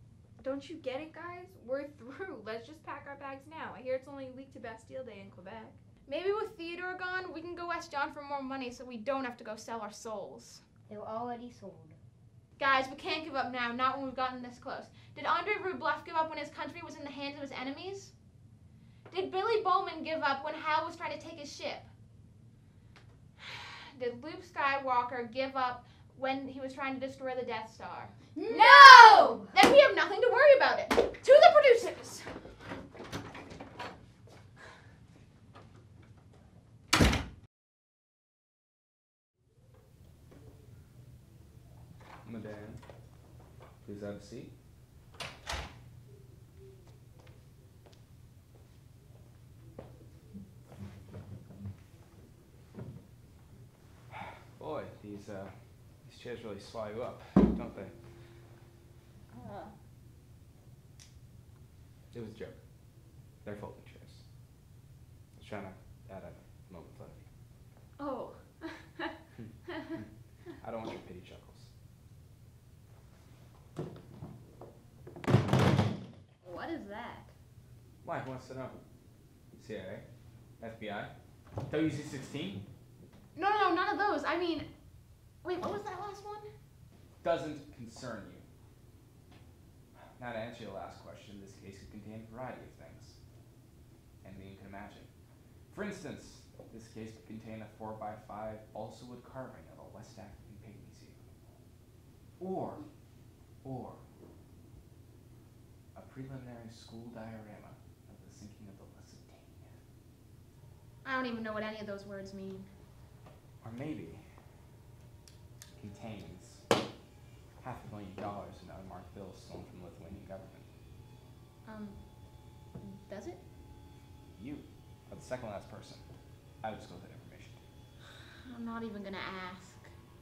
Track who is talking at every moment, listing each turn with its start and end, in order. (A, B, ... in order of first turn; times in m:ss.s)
0:00.4-0:05.8 A
0:06.1-0:10.6 B
0:10.9-0:12.0 C
0:12.6-0:18.1 B
0:19.1-0:21.9 B
0:23.4-0:32.3 B
0:28.4-0:29.5 C
0:42.2-0:42.8 D
0:43.8-0:44.5 D
0:54.1-0:58.0 D
1:02.1-1:02.6 D
1:03.4-1:04.2 D
1:05.4-1:07.3 D
1:08.0-1:09.0 B
1:09.4-1:11.7 D
1:16.4-1:17.3 B
1:18.0-1:18.8 D
1:19.5-1:20.0 D
1:20.6-1:21.1 D
1:21.7-1:22.7 D
1:23.4-1:24.7 B
1:25.4-1:26.5 B
1:27.2-1:28.4 D
1:30.2-1:33.2 D
1:34.2-1:35.1 D
1:35.7-1:41.2 D
1:42.4-1:42.8 D
1:43.6-1:44.0 D
1:46.0-1:49.8 D
1:51.0-1:52.7 B
1:53.6-1:54.3 D
1:55.8-1:56.6 D
1:57.6-2:00.7 D
2:01.6-2:02.0 B
2:02.8-2:03.4 B
2:04.4-2:06.0 D
2:06.6-2:07.6 D
2:08.4-2:09.9 B